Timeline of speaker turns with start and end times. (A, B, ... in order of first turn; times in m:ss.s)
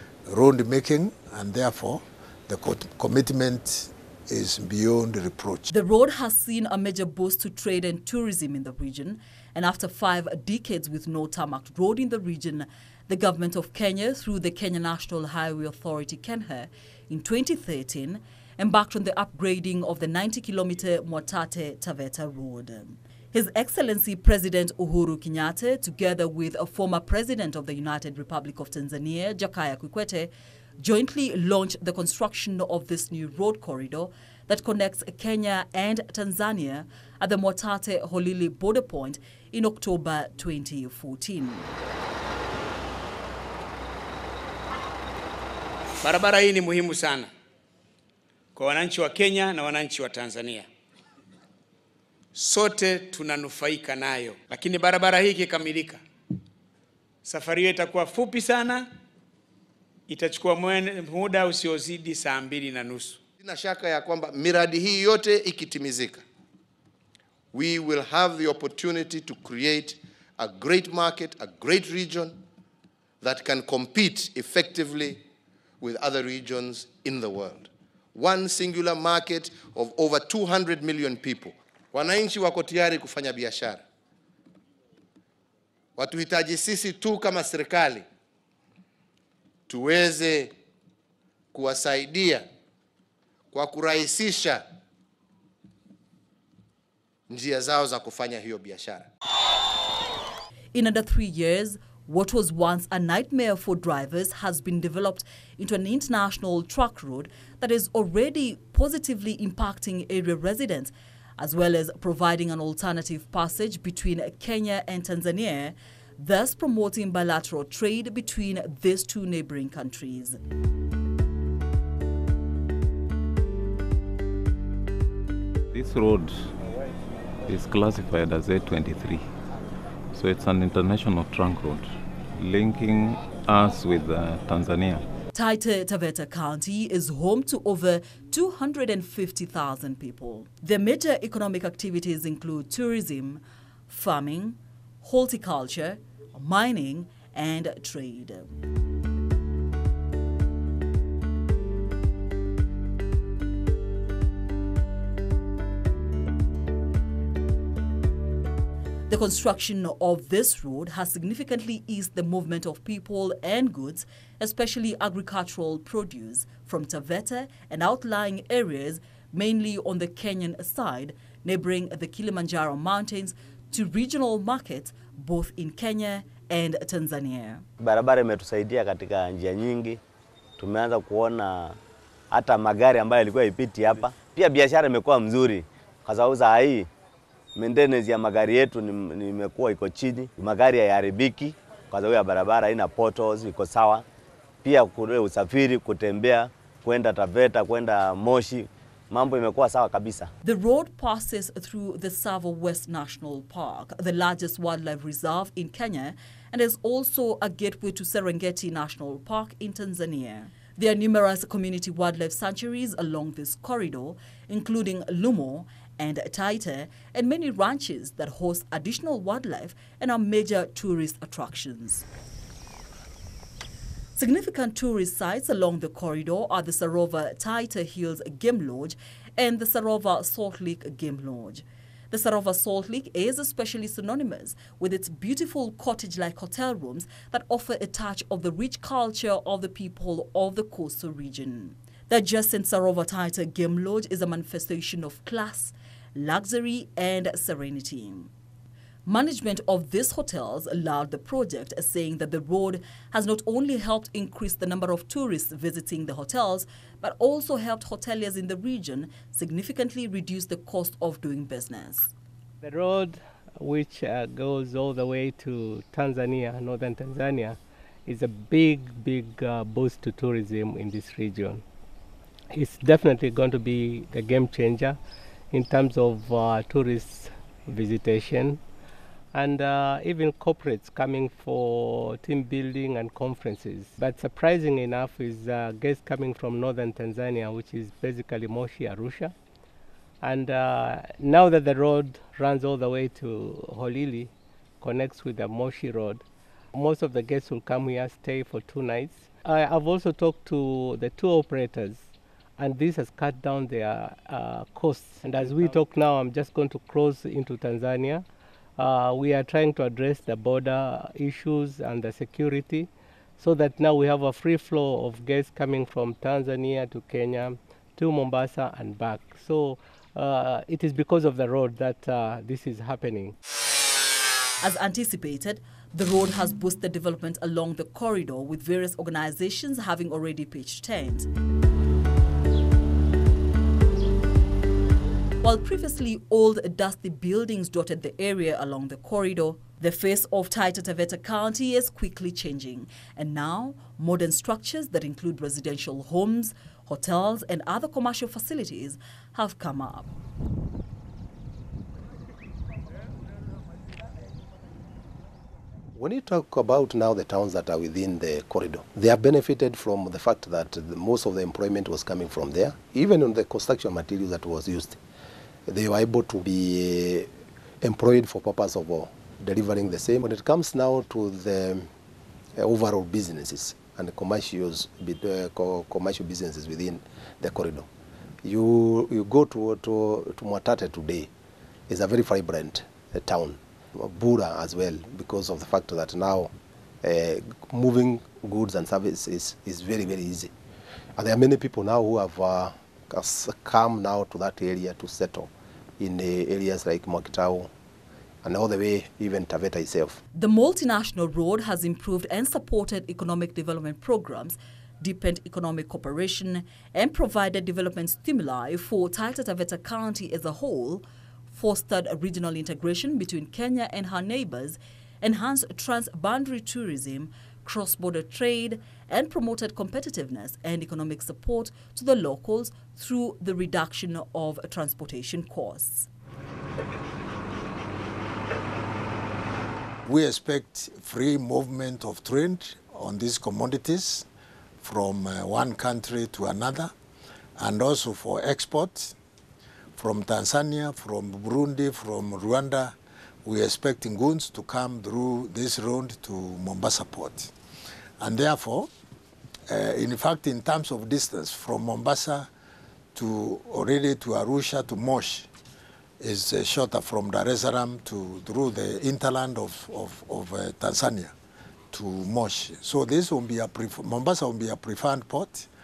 0:00.3-0:05.7 A
0:05.7-0:41.7 B
0:46.1-0:47.0 C
0:48.6-0:50.5 C
0:53.2-0:55.9 C
0:58.0-0:58.3 C
1:00.1-1:00.5 C
1:02.0-1:02.3 C
1:03.4-1:06.2 D
1:07.5-1:12.4 D
1:13.2-1:15.2 D
1:15.8-1:23.8 D
1:26.0-1:28.1 D
1:29.7-1:30.5 D
1:31.5-1:32.5 D
1:33.5-1:34.6 D
1:37.3-1:39.1 D
1:40.7-2:00.4 B
2:05.7-2:06.5 E
2:07.5-2:09.2 E
2:10.1-2:15.0 E
2:15.3-2:28.5 B
2:39.1-2:57.6 B
2:57.8-3:00.0 F
3:00.6-3:01.8 F
3:02.3-3:06.9 F
3:07.6-3:14.0 F
3:14.6-3:20.3 F
3:20.4-3:42.0 B
3:44.2-4:08.3 B
4:09.1-4:22.1 B
4:22.6-4:31.6 G
4:32.5-4:35.0 G
4:35.5-4:38.6 G
4:39.3-4:49.3 G
4:50.2-5:08.2 G
5:08.8-5:23.4 G
5:24.6-5:31.3 B
5:35.4-5:50.1 B
5:56.0-6:05.0 H
6:05.7-6:07.3 H
6:07.8-6:11.9 H
6:12.6-6:17.9 H
6:18.4-6:21.3 H
6:21.9-6:26.5 H
6:27.0-6:30.5 H
6:31.2-6:37.7 H
6:38.4-6:40.2 H
6:40.3-7:06.1 B
7:10.1-7:10.9 E
7:10.1-7:14.2 A
7:12.3-7:12.9 E
7:14.8-7:16.9 A
7:17.6-7:19.2 A
7:20.0-7:22.9 A
7:23.4-7:27.5 A
7:28.2-7:28.9 A
7:29.7-7:32.5 A
7:33.2-7:35.5 A
7:36.2-7:41.3 A
7:41.9-7:45.7 A
7:42.8-7:43.1 E